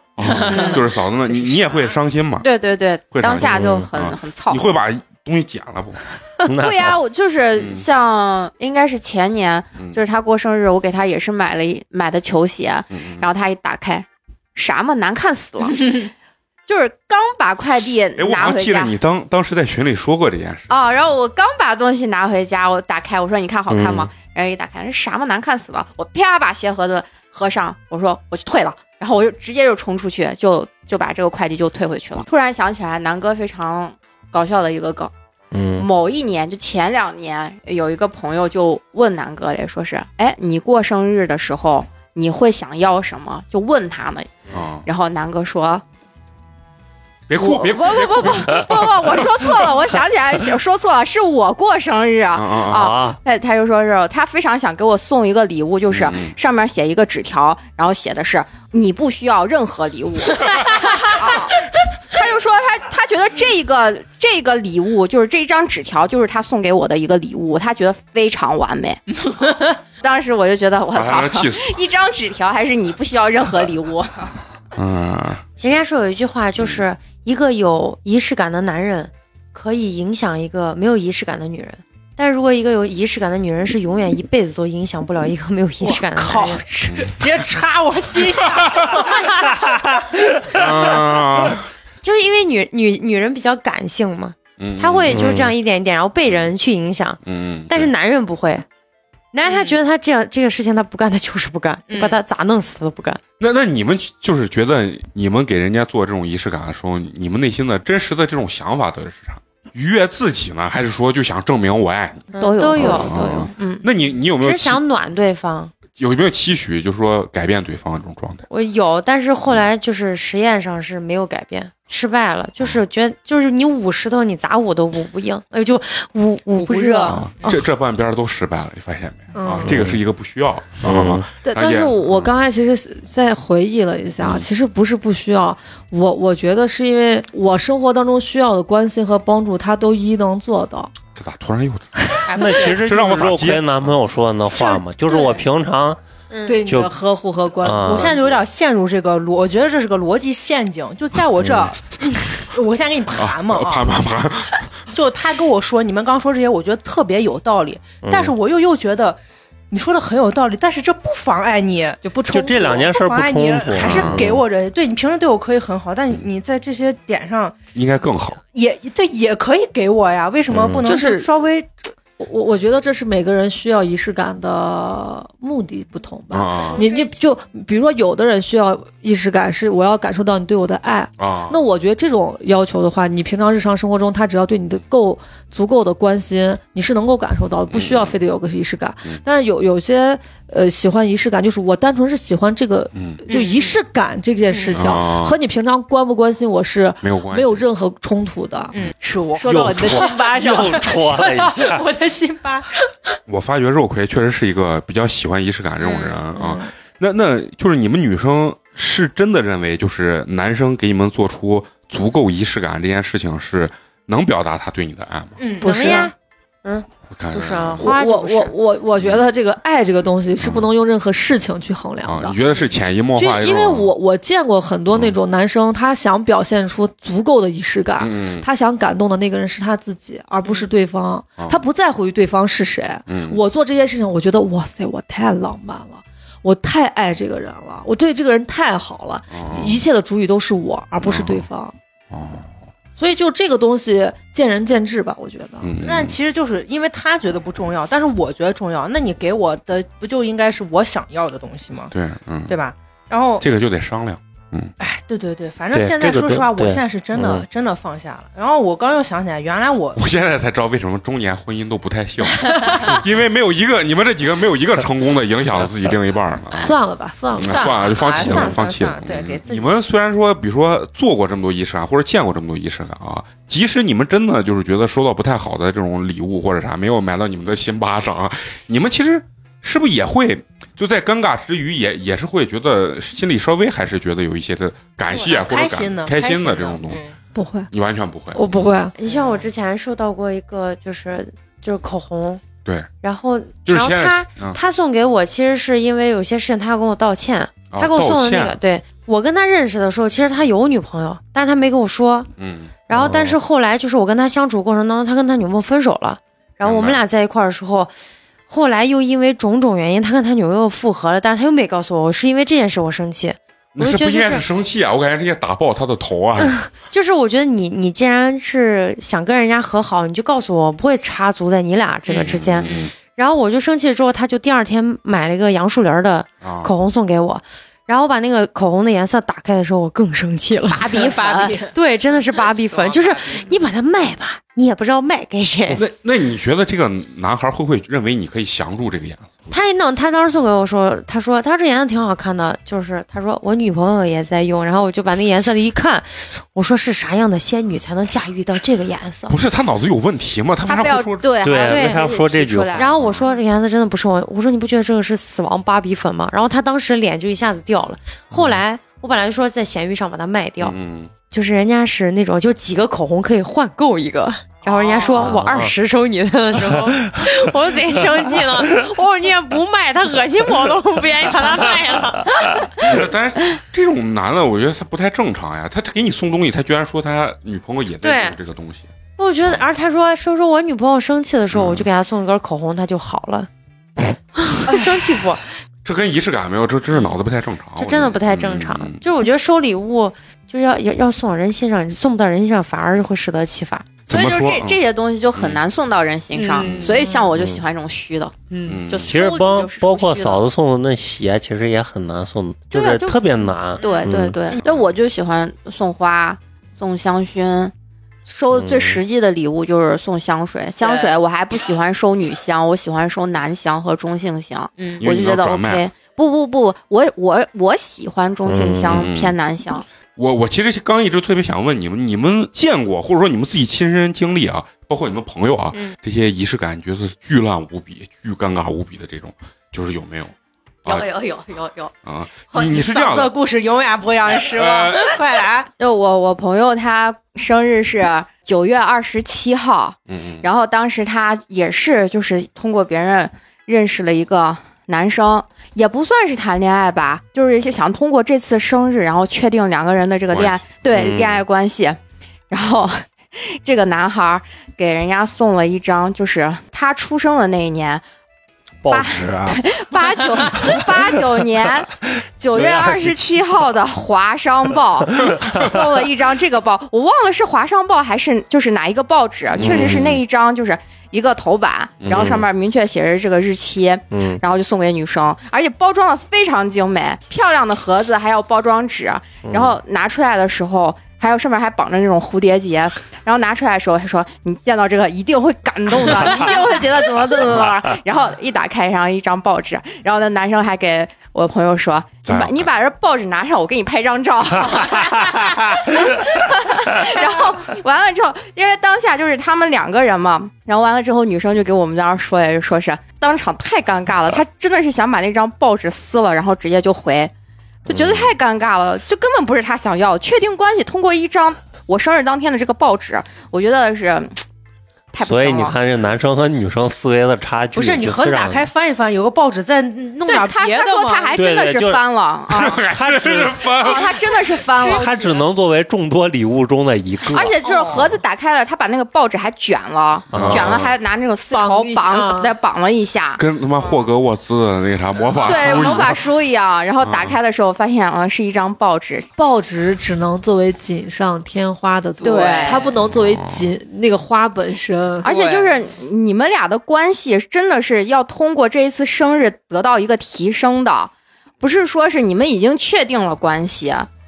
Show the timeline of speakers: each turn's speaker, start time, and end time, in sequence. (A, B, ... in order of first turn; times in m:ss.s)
0:00.2-0:02.5 A
0:00.2-0:00.8 B
0:00.4-0:00.8 C
0:02.4-0:04.6 C
0:03.1-0:06.0 A
0:03.4-0:03.9 D
0:06.4-0:07.0 D
0:06.6-0:16.1 C
0:07.6-0:07.8 A
0:12.9-0:13.3 A
0:16.7-0:18.9 C
0:18.2-0:20.8 A
0:20.7-0:35.1 C
0:23.7-0:24.1 D
0:35.5-0:35.9 D
0:35.8-0:44.3 C
0:44.5-0:44.9 A
0:44.9-0:45.8 C
0:47.3-0:49.1 A
0:47.4-1:14.1 C
0:52.3-0:52.9 A
0:52.7-0:53.2 D
0:55.9-0:56.3 A
1:10.9-1:11.8 A
1:14.7-1:15.7 A
1:15.6-1:26.6 E
1:16.6-1:16.8 A
1:25.8-1:29.7 B
1:28.6-1:29.1 A
1:30.5-1:31.7 A
1:32.0-1:38.6 E
1:34.6-1:35.4 A
1:35.1-1:35.5 D
1:37.2-1:37.9 A
1:39.3-1:43.2 E
1:39.4-1:39.8 B
1:41.9-1:42.2 B
1:43.4-1:54.8 A
1:52.3-1:53.3 E
1:52.4-1:53.8 C
1:54.4-1:55.7 E
1:56.0-1:58.4 A
1:58.5-2:07.6 E
2:06.6-2:07.6 B
2:07.1-2:12.3 A
2:09.4-2:09.7 F
2:09.6-2:10.0 D
2:10.8-2:11.3 D
2:11.4-2:20.9 F
2:21.1-2:23.9 A
2:22.3-2:26.0 D
2:26.5-2:28.1 F
2:26.6-2:26.9 D
2:27.6-2:28.2 D
2:27.7-2:34.0 B
2:31.4-2:31.7 D
2:33.2-2:34.7 A
2:34.9-2:39.2 B
2:38.0-2:38.3 D
2:39.7-2:47.6 B
2:42.0-2:42.9 F
2:42.3-2:44.4 D
2:43.8-2:44.4 A
2:47.7-2:48.4 A
2:48.5-2:51.7 B
2:50.5-2:50.9 D
2:50.8-2:51.3 F
2:52.2-3:18.7 F
2:56.3-2:56.8 A
3:01.2-3:01.6 A
3:07.7-3:08.2 A
3:12.9-3:13.2 A
3:13.3-3:13.7 B
3:14.5-3:14.8 B
3:14.7-3:15.4 A
3:17.0-3:17.7 A
3:18.7-3:22.9 B
3:19.4-3:20.8 F
3:19.4-3:21.9 D
3:23.3-3:35.4 A
3:25.8-3:26.6 B
3:35.4-3:36.1 B
3:35.6-3:36.1 E
3:35.6-3:36.1 F
3:36.6-3:38.5 E
3:37.1-3:37.9 A
3:37.8-3:42.4 F
3:40.4-3:40.7 A
3:42.0-3:43.9 A
3:43.2-4:01.7 F
3:48.0-3:48.5 A
3:51.4-3:51.6 A
3:53.1-3:53.4 A
3:59.3-3:59.8 A
4:01.0-4:01.5 A
4:02.1-4:02.5 A
4:03.0-4:05.7 F
4:05.6-4:06.2 A
4:05.8-4:11.9 B
4:11.9-4:12.6 A
4:12.5-4:13.4 B
4:13.4-4:14.7 A
4:14.8-4:20.0 B
4:15.7-4:17.4 D
4:20.0-4:26.7 A
4:22.5-4:22.8 B
4:26.6-4:28.4 F
4:27.4-4:47.0 A
4:27.4-4:29.7 B
4:45.3-4:47.2 B
4:47.4-4:47.7 F
4:47.7-4:48.4 A
4:48.3-4:48.9 F
4:49.0-4:52.4 E
4:49.1-4:49.4 B
4:53.0-5:02.3 E
4:53.7-4:54.6 A
4:57.7-4:58.6 A
5:02.4-5:02.7 A
5:02.9-5:07.9 E
5:02.9-5:03.4 D
5:06.6-5:07.0 A
5:08.5-5:14.4 E
5:13.8-5:16.6 A
5:16.5-5:35.8 E
5:22.1-5:22.9 A
5:26.4-5:26.7 A
5:30.7-5:33.6 B
5:35.7-5:39.5 A
5:39.5-5:49.4 E
5:49.3-5:51.3 A
5:50.7-5:52.9 C
5:51.4-5:52.9 D
5:51.6-5:52.0 E
5:52.7-6:00.8 E
5:53.0-5:53.3 A
5:58.3-5:58.6 D
6:00.6-6:01.1 A
6:01.3-6:12.9 E
6:04.7-6:05.4 C
6:05.1-6:05.7 D
6:12.8-6:18.9 A
6:18.0-6:18.4 E
6:19.2-6:23.5 E
6:21.5-6:21.9 A
6:24.1-6:25.4 E
6:25.8-6:29.0 A
6:27.8-6:34.0 E
6:34.1-6:34.8 A
6:34.1-6:38.3 C
6:35.4-6:35.6 A
6:36.3-6:37.3 E
6:36.6-6:37.0 A
6:37.4-6:37.6 D
6:38.5-6:38.8 E
6:38.7-6:39.2 A
6:38.9-6:40.4 C
6:39.0-6:44.4 D
6:42.7-6:43.2 C
6:43.8-6:47.7 C
6:48.3-6:59.8 C
6:48.6-6:49.0 D
6:50.8-6:51.2 B
6:55.0-6:55.9 A
6:58.5-6:59.0 D
6:58.9-6:59.4 A
7:00.2-7:10.3 A
7:10.8-7:11.9 C
7:12.0-7:13.4 A
7:12.6-7:15.7 B
7:14.5-7:15.1 A
7:15.8-7:32.0 C
7:20.1-7:20.5 A
7:30.3-7:30.6 A
7:30.9-7:31.4 D
7:32.5-7:33.0 C
7:33.5-7:38.0 C
7:38.8-7:40.9 D
7:38.9-8:27.3 C
7:42.5-7:43.5 D
7:49.6-7:50.1 D
7:49.6-7:50.2 A
7:52.0-7:52.4 A
7:54.1-7:54.4 D
7:59.4-7:59.7 D
8:12.3-8:12.7 A
8:27.9-8:34.4 C
8:27.9-8:28.2 D
8:35.1-8:35.8 C
8:35.2-8:38.7 D
8:37.7-8:41.4 B
8:40.3-8:42.8 C
8:41.3-8:42.0 D
8:42.5-8:44.2 A
8:42.7-8:43.7 D
8:43.8-8:45.1 C
8:44.8-8:45.4 B
8:44.8-8:47.6 D
8:47.3-8:53.4 C
8:47.6-8:48.2 B
8:50.3-8:50.8 D
8:50.3-8:50.9 A
8:51.5-8:52.6 F
8:53.4-8:56.2 A
8:55.4-8:59.3 C
8:57.0-8:57.4 A
8:59.4-9:05.4 F
9:02.2-9:02.9 B
9:02.2-9:02.8 C
9:03.0-9:03.6 A
9:05.2-9:14.1 C
9:05.3-9:05.7 B